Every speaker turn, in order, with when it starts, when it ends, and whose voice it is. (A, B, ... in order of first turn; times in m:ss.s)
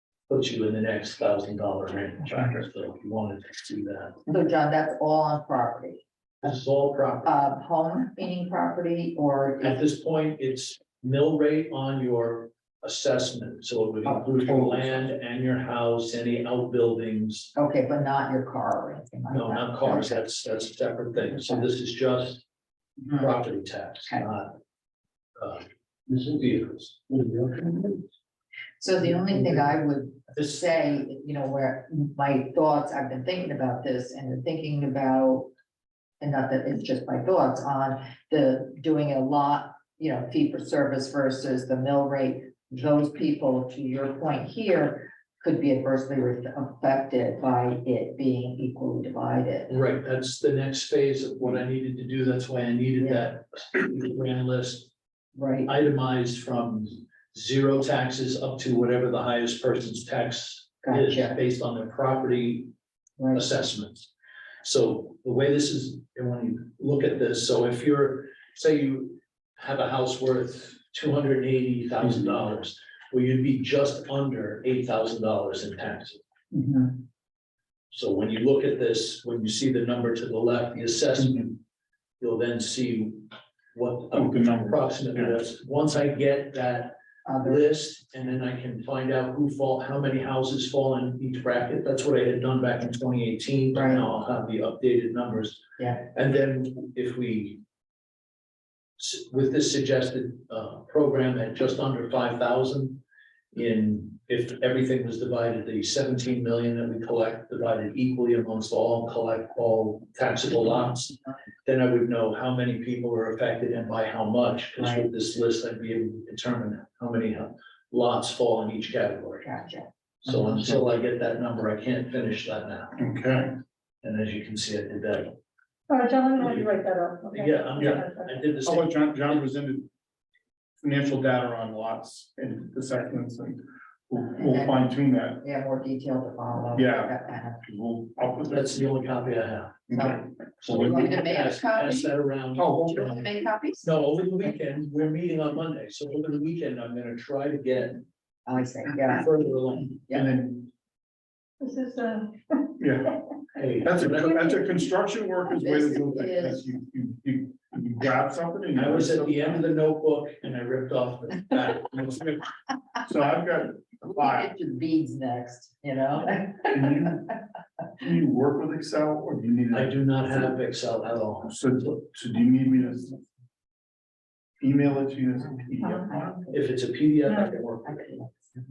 0:00.3-0:04.3 A
0:04.3-0:06.5 B
0:06.4-0:07.5 A
0:07.2-0:09.8 B
0:09.6-0:17.5 A
0:14.0-0:15.0 B
0:17.6-0:20.2 B
0:19.3-0:22.4 A
0:21.3-0:21.7 B
0:23.1-0:24.6 A
0:25.4-0:28.0 A
0:28.8-0:35.5 B
0:30.3-0:31.0 A
0:36.2-0:49.7 B
0:49.7-0:54.9 A
0:53.0-0:53.3 B
0:55.4-0:55.7 B
0:55.7-1:02.7 A
1:00.8-1:01.4 B
1:03.2-1:03.4 B
1:03.3-1:04.1 A
1:04.6-1:16.2 A
1:16.5-1:17.0 C
1:17.9-1:21.5 A
1:21.2-1:21.5 C
1:22.2-1:37.6 A
1:24.1-1:25.4 C
1:27.2-1:27.6 B
1:33.7-1:34.0 B
1:35.8-1:36.0 B
1:39.0-1:43.0 A
1:43.5-1:59.5 A
1:54.8-1:55.0 B
1:59.4-1:59.9 B
2:00.2-2:03.0 A
2:03.0-2:03.6 C
2:04.0-2:05.4 A
2:05.9-2:08.4 D
2:07.3-2:09.3 A
2:08.6-2:09.9 C
2:10.8-2:15.4 C
2:14.4-2:17.6 B
2:16.7-2:18.9 C
2:18.5-2:19.9 A
2:19.9-2:21.1 C
2:19.9-2:22.1 B
2:20.6-2:23.1 A
2:22.6-2:23.2 C
2:22.8-2:24.5 B
2:23.8-2:28.0 A
2:28.5-2:29.4 B
2:29.0-2:30.1 A
2:30.1-2:30.7 C
2:31.6-2:32.7 D
2:32.8-2:33.2 C
2:33.6-2:34.4 A
2:33.8-2:39.7 C
2:35.6-2:36.7 B
2:38.8-2:42.4 A
2:43.0-2:44.5 C
2:44.0-2:47.1 B
2:46.7-2:47.4 C
2:48.0-2:50.0 C
2:49.7-2:51.6 A
2:51.5-2:53.2 C
2:54.6-2:56.5 C
2:55.8-2:56.1 D
2:56.5-2:58.2 A
2:57.3-2:57.5 D
2:57.8-2:58.6 B